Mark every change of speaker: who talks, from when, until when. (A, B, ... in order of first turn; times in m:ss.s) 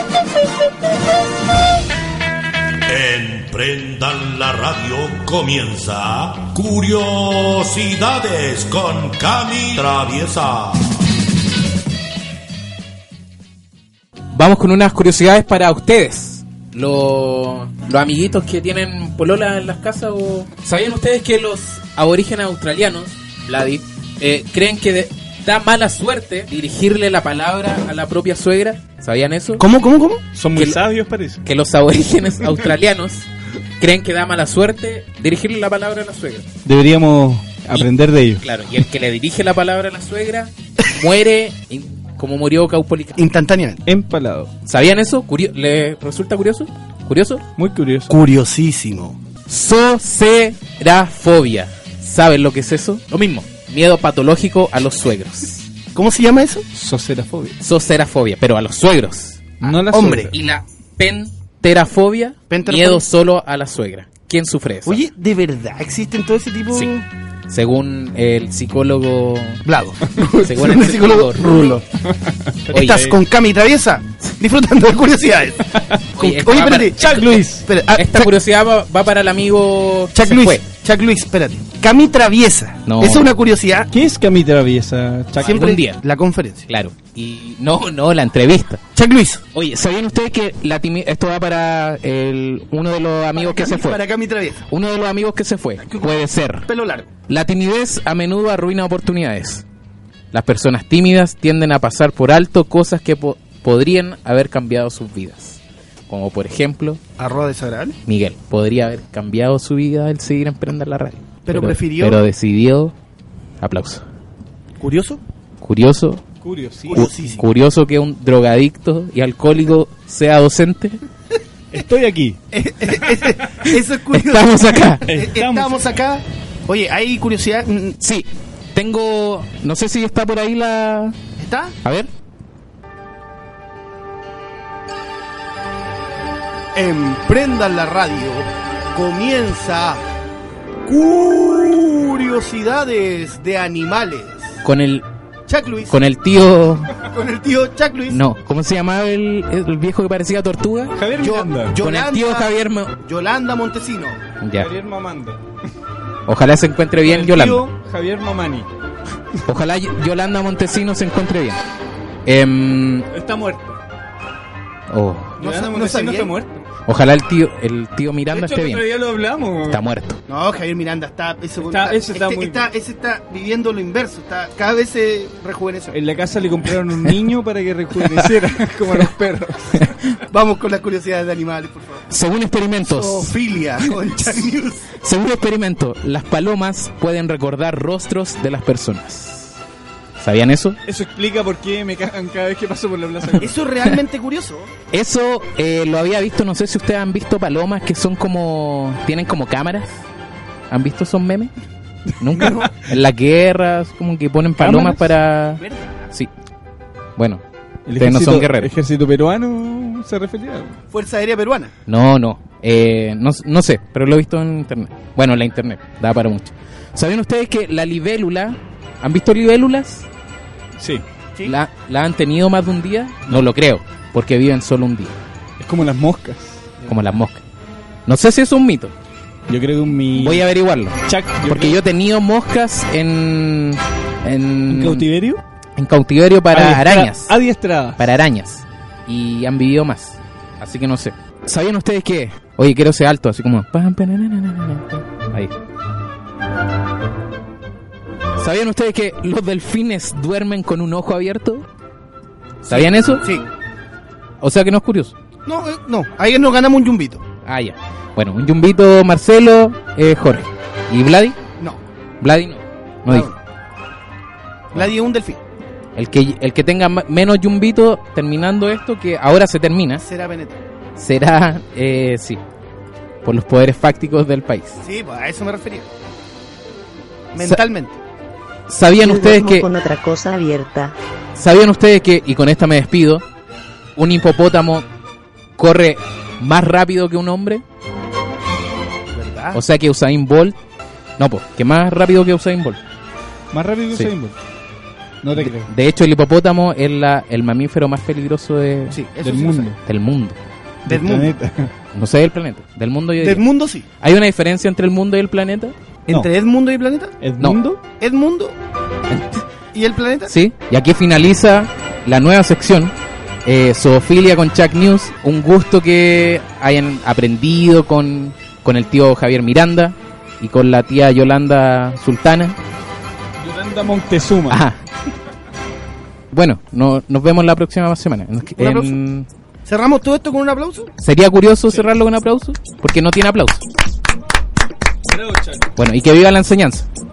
0:02.9-0:10.9 A
0:14.3-0:29.6 B
0:29.6-0:30.2 C
0:30.3-0:31.4 D
0:30.5-0:30.8 B
0:31.4-0:33.3 B
0:33.8-0:36.4 B
0:36.6-0:38.4 D
0:38.4-0:43.3 B
0:43.2-0:43.8 C
0:43.8-0:44.5 D
0:44.6-0:47.4 B
0:47.6-0:48.1 D
0:48.1-0:49.2 C
0:49.5-0:55.7 B
0:55.9-0:56.6 C
0:56.7-0:57.5 D
0:57.6-0:59.7 B
0:59.6-1:00.3 D
0:59.7-1:00.3 C
1:00.3-1:05.0 B
1:02.5-1:03.1 C
1:04.8-1:07.0 C
1:07.5-1:09.6 B
1:09.6-1:11.8 C
1:10.4-1:11.5 B
1:12.0-1:13.2 D
1:12.7-1:15.6 C
1:12.7-1:13.1 B
1:15.7-1:16.0 D
1:16.1-1:20.6 B
1:16.2-1:18.3 C
1:20.1-1:23.9 C
1:22.8-1:23.3 B
1:23.9-1:25.6 D
1:25.4-1:26.0 B
1:25.4-1:26.6 C
1:26.7-1:28.8 B
1:28.9-1:29.4 C
1:29.5-1:34.0 B
1:33.3-1:34.6 C
1:34.6-1:36.7 B
1:35.8-1:37.1 C
1:37.3-1:39.6 B
1:40.3-1:47.0 B
1:47.2-1:48.0 C
1:48.0-1:52.9 B
1:51.4-1:52.2 C
1:53.6-1:54.0 B
1:54.8-1:55.2 C
1:55.6-1:56.2 B
1:56.4-1:57.1 D
1:56.9-1:57.4 C
1:56.9-2:01.0 B
2:01.7-2:02.4 D
2:02.5-2:08.0 C
2:04.1-2:05.1 B
2:05.0-2:05.9 D
2:08.0-2:11.1 B
2:11.4-2:11.7 C
2:11.8-2:12.1 B
2:16.7-2:20.0 C
2:20.8-2:24.6 C
2:24.6-2:25.1 B
2:25.5-2:26.0 C
2:25.9-2:26.9 B
2:27.0-2:28.2 C
2:28.1-2:30.9 B
2:30.9-2:31.8 D
2:31.2-2:34.2 C
2:31.8-2:32.9 B
2:34.4-2:34.7 B
2:34.6-2:35.4 D
2:36.3-2:37.6 B
2:37.0-2:38.7 D
2:37.3-2:37.6 C
2:39.4-2:41.6 B
2:42.2-2:43.1 B
2:43.1-2:43.8 D
2:44.9-2:45.4 B
2:45.4-2:46.6 D
2:45.4-2:46.3 C
2:46.8-2:48.8 B
2:48.3-2:49.8 D
2:49.7-2:50.2 B
2:50.3-2:56.0 C
2:51.6-2:52.7 D
2:55.9-2:59.8 D
3:00.3-3:02.0 C
3:02.1-3:09.6 B
3:02.8-3:04.9 C
3:10.2-3:10.8 B
3:10.8-3:13.6 D
3:13.4-3:14.7 C
3:14.9-3:20.0 B
3:20.7-3:21.5 B
3:22.2-3:26.3 B
3:24.6-3:25.1 D
3:25.6-3:26.1 C
3:27.2-3:27.4 B
3:27.9-3:30.8 D
3:28.0-3:28.7 B
3:30.9-3:31.7 C
3:31.9-3:40.0 B
3:40.8-3:41.0 D
3:41.4-3:45.1 B
3:45.6-3:47.0 D
3:46.8-3:47.4 B
3:48.0-3:48.9 B
3:49.5-3:50.5 D
3:50.1-3:55.1 B
3:51.0-3:51.8 D
3:54.7-3:55.4 D
3:55.8-3:57.4 B
3:56.5-3:58.1 D
3:58.0-4:05.5 B
4:08.4-4:11.6 B
4:12.6-4:13.2 B
4:12.7-4:13.4 C
4:14.4-4:15.1 B
4:15.4-4:17.2 C
4:17.4-4:21.4 B
4:22.2-4:23.3 B
4:23.1-4:23.3 C
4:24.7-4:25.4 C
4:26.0-4:30.0 B
4:30.0-4:30.6 C
4:31.0-4:32.4 B
4:33.2-4:34.8 B
4:34.8-4:35.9 C
4:37.3-4:38.0 C
4:38.7-4:39.7 B
4:39.0-4:40.9 E
4:41.3-4:43.2 B
4:44.0-4:44.8 B
4:45.6-4:47.6 B
4:49.1-4:49.6 C
4:49.5-4:50.6 B
4:51.2-4:52.8 B
4:53.5-4:54.4 D
4:55.2-4:55.7 D
4:55.3-4:59.0 B
4:58.9-4:59.7 C
4:59.1-4:59.8 D
4:59.8-5:00.4 B
5:00.8-5:01.7 D
5:00.9-5:01.3 C
5:01.9-5:03.4 B
5:03.2-5:03.8 C
5:04.0-5:05.7 B
5:06.1-5:07.1 C
5:07.2-5:07.8 D
5:07.9-5:08.5 C
5:09.1-5:09.4 B
5:09.7-5:10.3 C
5:10.3-5:12.9 B
5:13.4-5:22.6 B
5:23.4-5:24.6 D
5:24.5-5:24.8 B
5:26.3-5:29.3 B
5:28.5-5:29.0 C
5:29.6-5:30.9 C
5:31.0-5:33.6 B
5:35.0-5:35.7 D
5:35.8-5:36.9 B